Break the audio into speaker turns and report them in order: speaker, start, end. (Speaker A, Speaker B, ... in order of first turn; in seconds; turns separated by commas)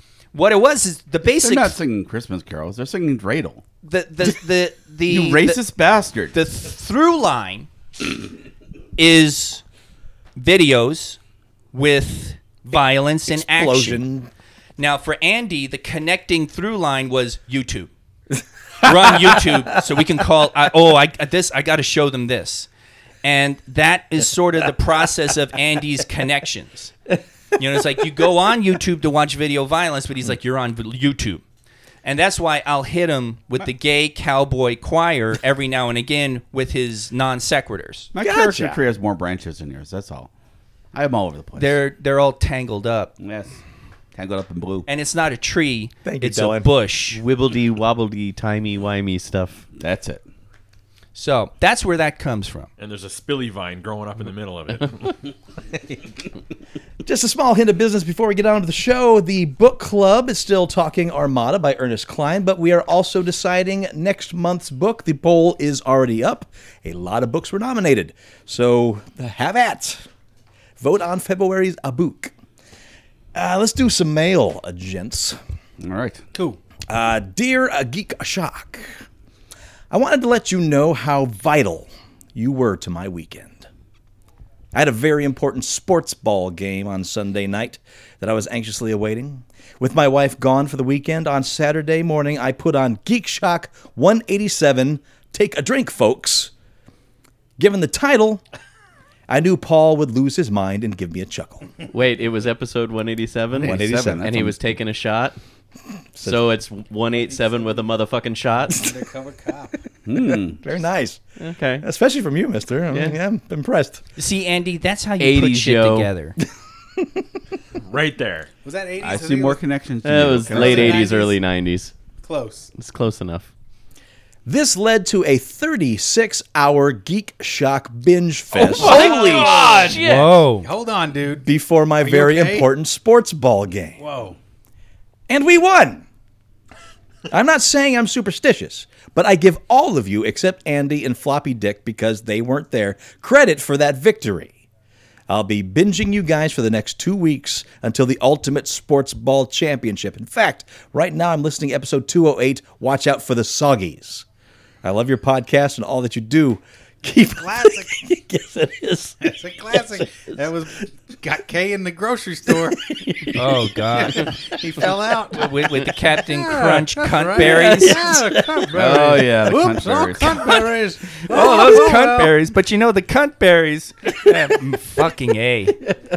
Speaker A: 0.3-1.8, Speaker B: 1.4-3.6, Speaker A: 3.8-5.6, Speaker B: 5.1-6.3, Speaker A: 6.3-7.7, Speaker A: 9.0-9.6, Speaker A: 10.3-11.2, Speaker A: 11.7-14.0, Speaker C: 13.3-14.3, Speaker A: 14.8-17.9, Speaker A: 18.8-22.7, Speaker A: 23.2-26.9, Speaker A: 27.6-31.4, Speaker A: 32.0-38.1, Speaker B: 38.1-40.3, Speaker C: 38.2-38.8, Speaker B: 40.9-41.8, Speaker A: 41.5-43.1, Speaker B: 43.2-43.6, Speaker B: 44.1-44.9, Speaker A: 44.9-47.2, Speaker C: 46.0-46.7, Speaker D: 47.1-49.6, Speaker B: 49.8-50.2, Speaker A: 51.1-52.7, Speaker E: 52.8-55.2, Speaker C: 57.0-70.0, Speaker C: 70.8-72.3, Speaker C: 73.3-75.4, Speaker B: 75.8-76.2, Speaker F: 76.3-76.6, Speaker C: 76.9-79.0, Speaker C: 79.9-83.7, Speaker C: 84.7-96.5, Speaker C: 97.6-98.4, Speaker C: 99.3-101.7, Speaker D: 101.9-105.4, Speaker B: 103.5-104.6, Speaker C: 103.6-104.3, Speaker C: 106.2-106.5, Speaker D: 106.2-108.8, Speaker F: 107.2-107.8, Speaker F: 108.7-109.8, Speaker B: 110.0-110.6, Speaker C: 110.2-111.2, Speaker D: 111.4-111.8, Speaker C: 111.8-114.0, Speaker A: 114.2-116.3, Speaker D: 115.2-116.1, Speaker C: 117.0-117.2, Speaker E: 117.9-118.5, Speaker F: 118.6-119.6, Speaker B: 119.0-121.1, Speaker D: 120.0-121.9, Speaker F: 120.4-121.4, Speaker F: 122.2-122.7, Speaker D: 122.7-123.5, Speaker C: 124.5-129.1, Speaker D: 128.6-130.4, Speaker F: 128.8-130.0, Speaker A: 129.8-130.7, Speaker F: 130.6-131.5, Speaker C: 131.4-134.0, Speaker F: 132.0-132.7, Speaker F: 134.0-134.3, Speaker C: 135.3-136.0, Speaker C: 137.3-144.5, Speaker C: 145.3-154.2, Speaker C: 154.8-159.3, Speaker F: 157.4-158.0, Speaker F: 159.2-162.9, Speaker C: 162.5-163.3, Speaker A: 163.3-164.3, Speaker F: 163.9-165.5, Speaker A: 165.3-168.1, Speaker F: 166.2-172.3, Speaker C: 167.4-168.7, Speaker B: 168.7-170.4, Speaker A: 171.3-175.8